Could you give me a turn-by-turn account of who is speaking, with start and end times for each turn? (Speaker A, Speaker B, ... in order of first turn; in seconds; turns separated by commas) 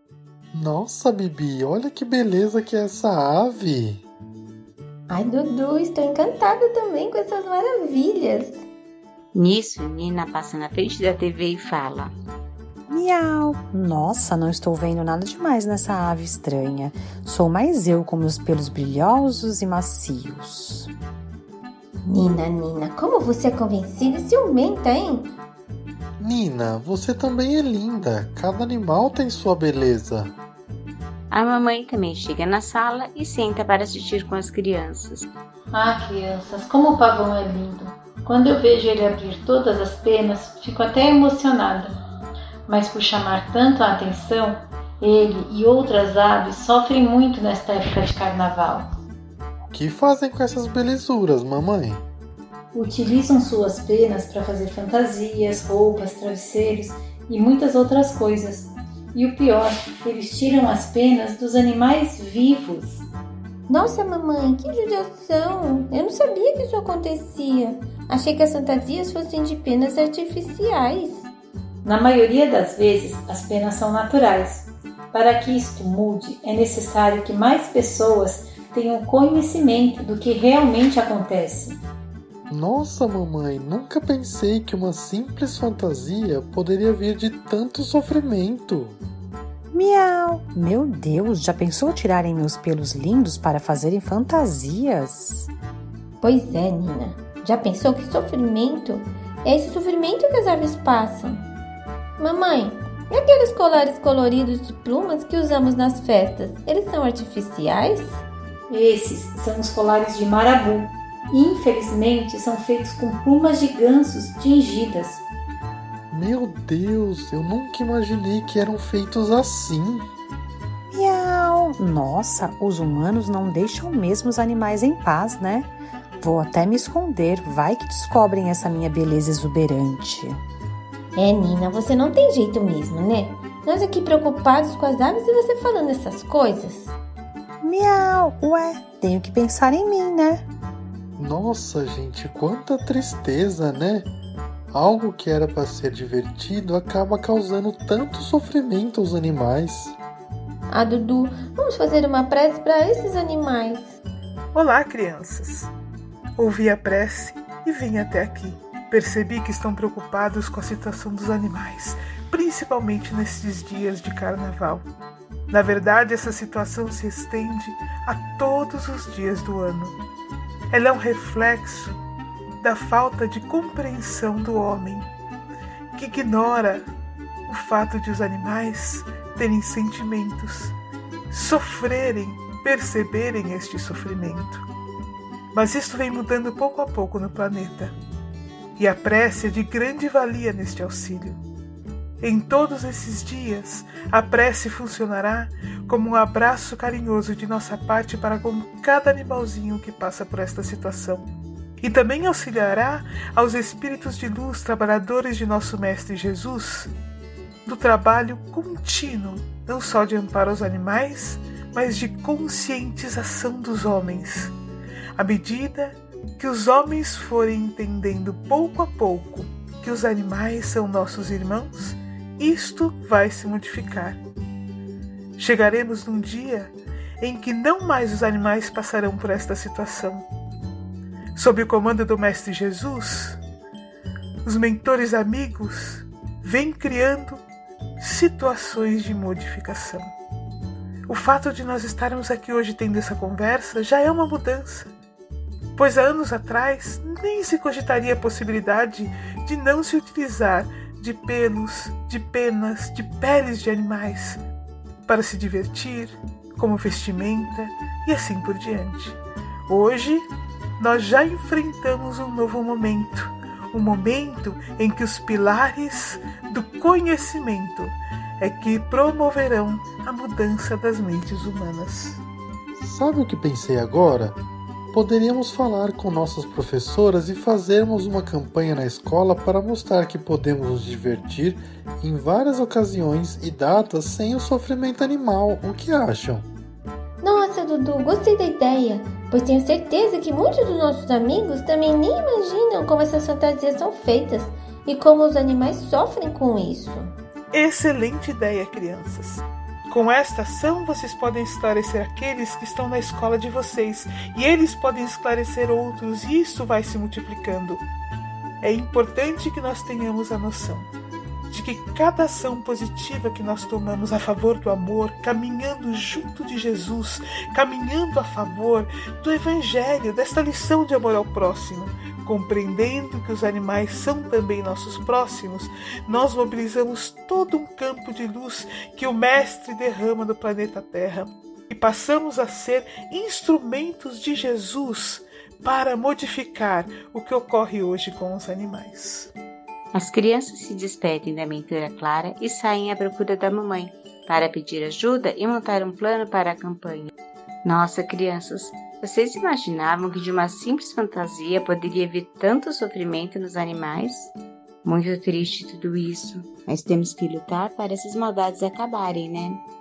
Speaker A: 0.5-4.0, Speaker B: 5.1-8.6, Speaker C: 9.3-12.1, Speaker D: 12.9-20.9, Speaker B: 22.0-25.3, Speaker A: 26.2-30.3, Speaker C: 31.3-35.3, Speaker E: 35.7-42.0, Speaker E: 42.7-48.9, Speaker A: 49.7-52.0, Speaker E: 52.7-63.0, Speaker B: 63.7-71.3, Speaker E: 71.8-81.8, Speaker A: 82.5-89.0, Speaker D: 89.7-95.5, Speaker B: 96.2-101.5, Speaker B: 102.2-108.2, Speaker E: 108.7-115.2, Speaker A: 116.1-120.1, Speaker D: 120.9-130.4, Speaker B: 131.1-136.9, Speaker D: 137.6-140.4, Speaker A: 141.2-144.1, Speaker A: 144.7-149.9, Speaker B: 150.7-153.9, Speaker F: 154.5-155.7, Speaker F: 156.4-164.8, Speaker F: 165.5-170.0, Speaker F: 170.7-172.0, Speaker F: 172.6-175.1, Speaker F: 175.9-176.9, Speaker F: 177.5-180.8, Speaker F: 181.3-184.6, Speaker F: 185.5-187.9, Speaker F: 188.8-191.4, Speaker F: 192.2-201.2, Speaker F: 201.8-206.9, Speaker F: 207.7-214.5, Speaker F: 215.2-224.2, Speaker F: 225.4-230.3, Speaker F: 231.3-233.4, Speaker F: 234.4-237.4, Speaker F: 238.0-240.1, Speaker F: 241.1-244.9, Speaker F: 245.8-254.4, Speaker F: 255.1-272.2, Speaker A: 272.7-274.4, Speaker A: 274.9-286.5, Speaker B: 287.2-297.1, Speaker F: 297.5-307.8, Speaker F: 308.6-310.9, Speaker F: 311.5-339.3, Speaker C: 339.9-347.1, Speaker C: 347.6-354.3, Speaker C: 354.8-359.6